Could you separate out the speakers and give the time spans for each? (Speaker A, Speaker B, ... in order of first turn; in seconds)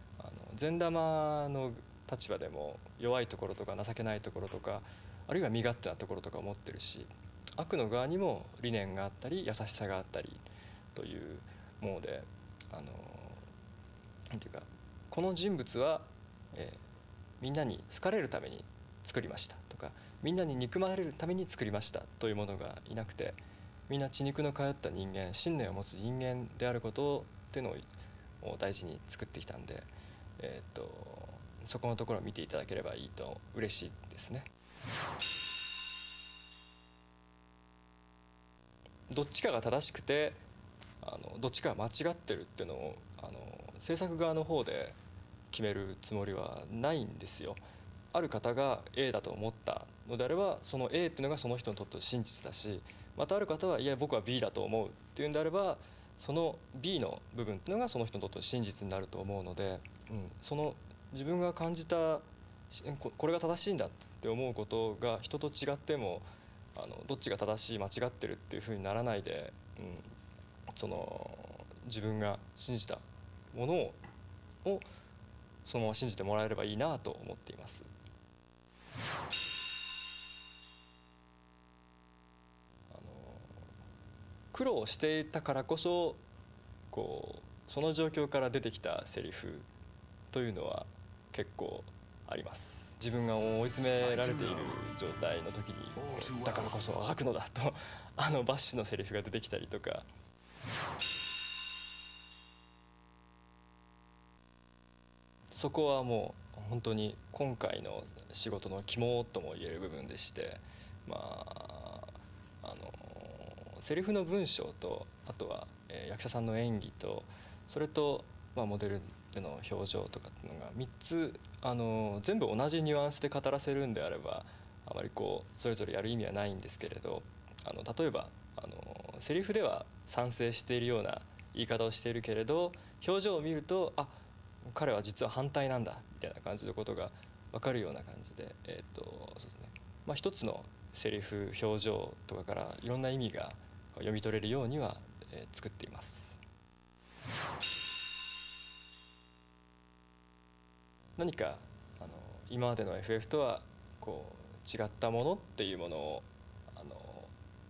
Speaker A: 0.2-13.5, 14.3-16.8, 17.4-27.9, 28.4-34.5, 39.1-40.4, 41.0-45.0, 45.5-47.6, 48.1-70.1, 70.7-74.0, 75.7-77.9, 82.9-83.6, 84.5-86.2, 86.9-89.7, 90.3-100.1, 105.5-134.2, 134.7-146.4, 151.2-157.3